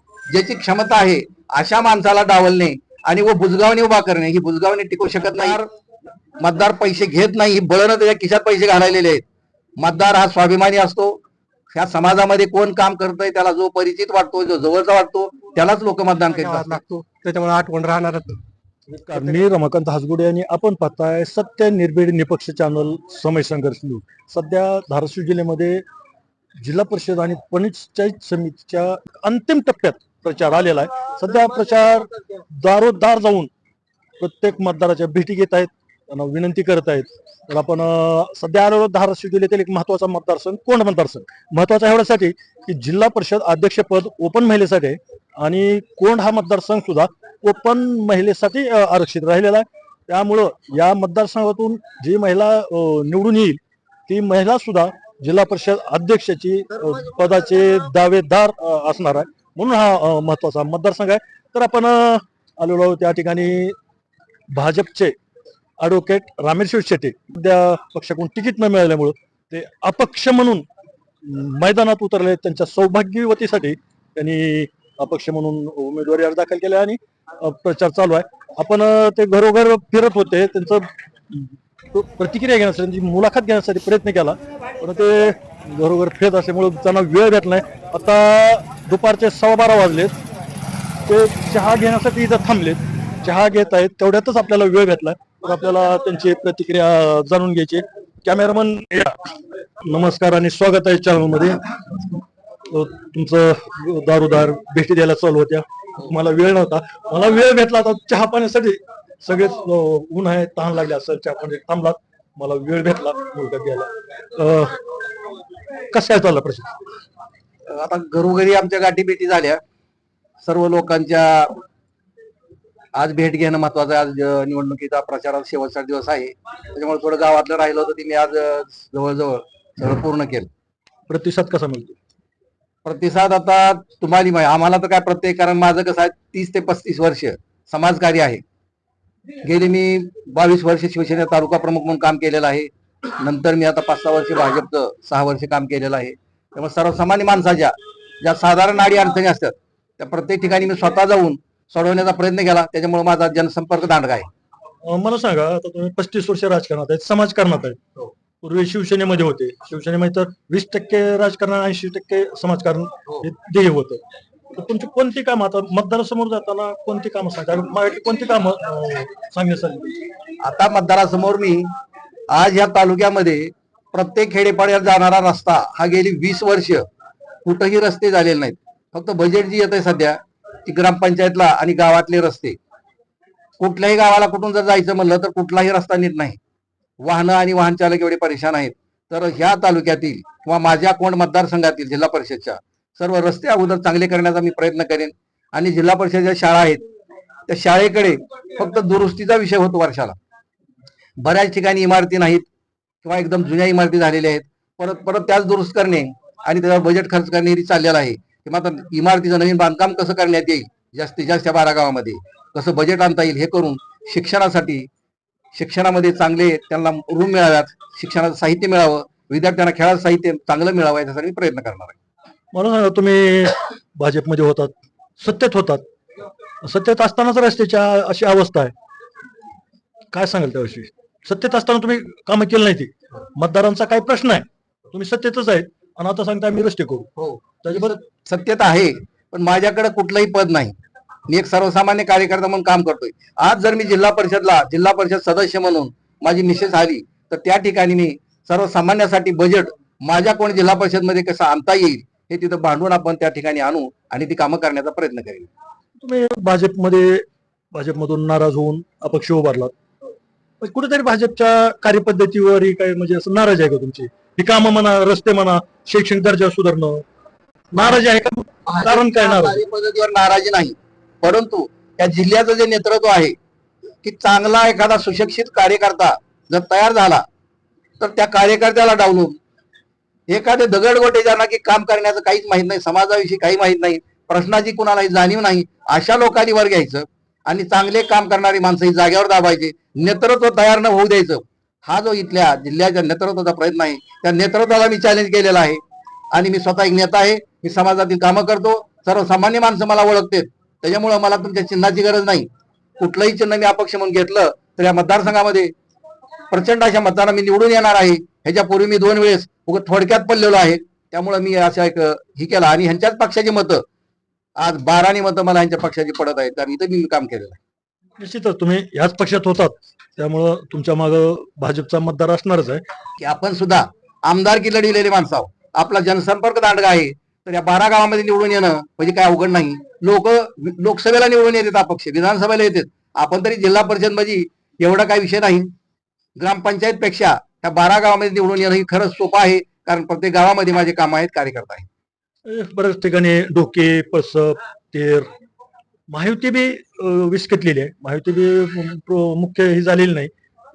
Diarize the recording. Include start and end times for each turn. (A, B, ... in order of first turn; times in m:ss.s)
0:00.3-0:05.7 A
0:06.4-0:09.2 A
0:09.8-0:11.2 A
0:11.7-0:16.8 A
0:16.3-0:18.4 B
0:18.9-0:25.8 C
0:26.6-0:33.5 C
0:34.2-1:03.8 C
1:04.5-1:05.1 C
1:05.8-1:10.6 C
1:11.2-1:30.2 C
1:31.1-1:39.2 C
1:39.8-1:42.1 C
1:42.7-1:54.8 C
1:55.9-1:56.7 C
1:57.7-1:59.6 A
2:00.4-2:01.6 A
2:03.0-2:10.5 A
2:11.1-2:12.0 C
2:12.8-2:18.4 A
2:19.4-2:34.3 A
2:34.8-2:37.8 C
2:38.4-2:44.0 C
2:44.5-2:50.0 C
2:50.4-2:51.7 A
2:52.3-2:56.8 A
2:57.4-3:02.6 A
3:03.6-3:06.4 A
3:07.0-3:16.8 A
3:17.5-3:20.2 A
3:21.2-3:22.4 A
3:23.0-3:34.9 A
3:35.5-3:42.0 A
3:42.5-3:45.8 C
3:46.6-3:48.7 C
3:50.1-3:57.1 C
3:57.2-4:00.7 A
3:57.6-3:58.0 C
4:01.3-4:15.5 A
4:16.0-4:19.7 C
4:20.6-4:27.0 C
4:27.7-4:29.6 C
4:28.7-4:33.3 A
4:34.0-4:37.2 A
4:38.0-4:39.4 A
4:40.3-4:55.8 A
4:56.3-5:02.5 A
5:03.0-5:05.7 A
5:06.5-5:13.8 A
5:14.6-5:17.6 A
5:18.2-5:22.8 C
5:23.2-5:35.7 A
5:36.4-5:41.9 A
5:42.5-5:45.3 C
5:46.1-5:50.3 C